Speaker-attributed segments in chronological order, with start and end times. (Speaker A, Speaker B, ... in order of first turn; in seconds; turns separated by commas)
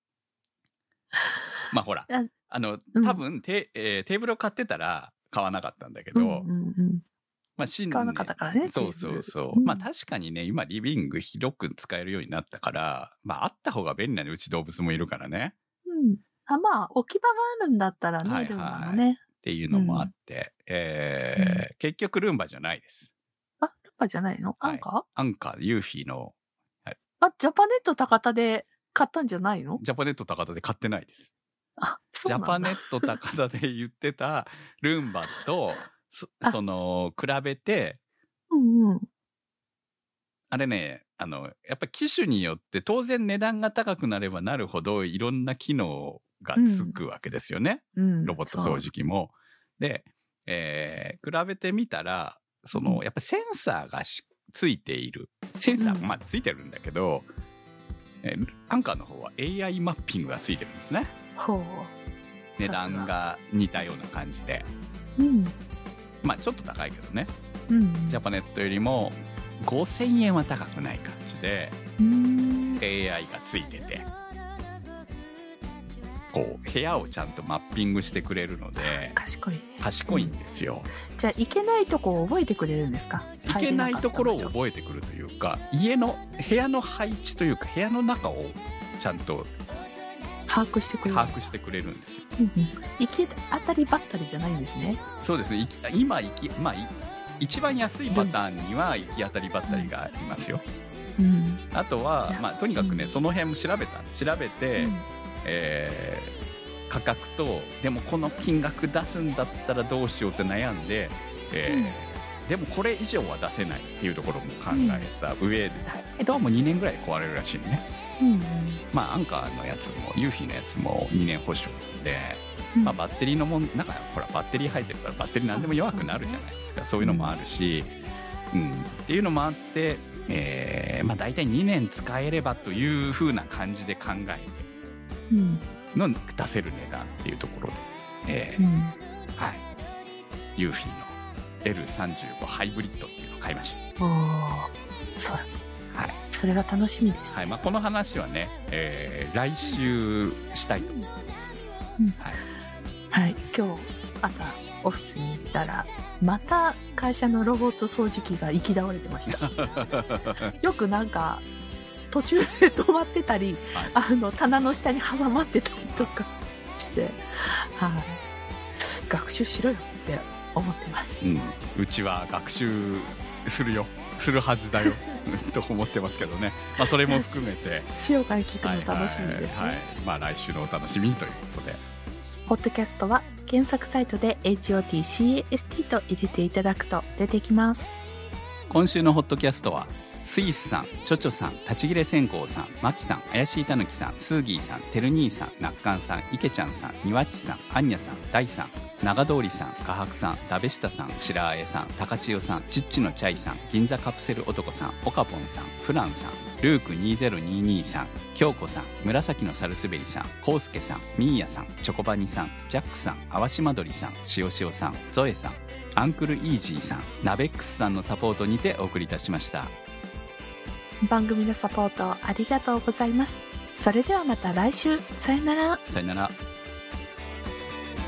Speaker A: 1.7-6.5, Speaker B: 2.9-3.2, Speaker B: 6.1-7.0, Speaker A: 7.6-15.6, Speaker B: 7.9-9.9, Speaker B: 15.9-20.1, Speaker A: 18.2-23.1, Speaker B: 21.4-21.6, Speaker B: 23.6-25.0, Speaker A: 24.6-27.0, Speaker B: 27.2-29.8, Speaker A: 29.8-31.3, Speaker B: 31.8-33.2, Speaker A: 32.2-38.0, Speaker B: 38.5-39.1, Speaker A: 40.5-57.3, Speaker B: 46.5-47.0, Speaker B: 48.0-48.9, Speaker B: 52.7-53.0, Speaker B: 55.8-56.1, Speaker A: 58.2-61.1, Speaker B: 61.4-61.9, Speaker A: 62.6-64.7, Speaker B: 62.6-63.1, Speaker B: 65.2-65.5, Speaker A: 66.2-67.3, Speaker B: 67.7-68.2, Speaker A: 68.1-71.8, Speaker B: 72.0-72.8, Speaker A: 72.8-74.1, Speaker A: 76.3-79.2, Speaker B: 78.8-80.4, Speaker A: 79.8-80.9, Speaker B: 81.1-84.5, Speaker A: 83.4-89.5, Speaker B: 90.5-91.4, Speaker A: 91.0-92.3, Speaker B: 92.4-95.0, Speaker A: 95.2-100.6, Speaker B: 98.1-98.4, Speaker B: 101.2-101.6, Speaker A: 101.7-106.3, Speaker B: 102.3-103.2, Speaker B: 104.8-105.0, Speaker A: 106.9-117.8, Speaker B: 111.7-112.0, Speaker B: 114.7-115.1, Speaker B: 118.2-118.8, Speaker A: 118.9-127.9, Speaker B: 125.5-126.4, Speaker B: 127.0-127.4, Speaker A: 128.5-134.7, Speaker B: 135.3-135.7, Speaker A: 135.9-138.7, Speaker B: 138.6-139.0, Speaker A: 139.4-139.6, Speaker A: 140.6-143.8, Speaker B: 144.0-145.5, Speaker A: 145.9-146.2, Speaker B: 146.3-147.4, Speaker A: 147.3-151.0, Speaker B: 150.8-151.1, Speaker B: 153.1-159.5, Speaker A: 159.3-160.5, Speaker B: 160.6-161.5, Speaker B: 162.1-168.2, Speaker B: 168.8-171.2, Speaker A: 171.2-177.9, Speaker B: 177.0-179.8, Speaker A: 178.6-181.8, Speaker B: 182.5-187.9, Speaker A: 188.7-219.7, Speaker B: 221.0-225.8, Speaker A: 225.9-226.3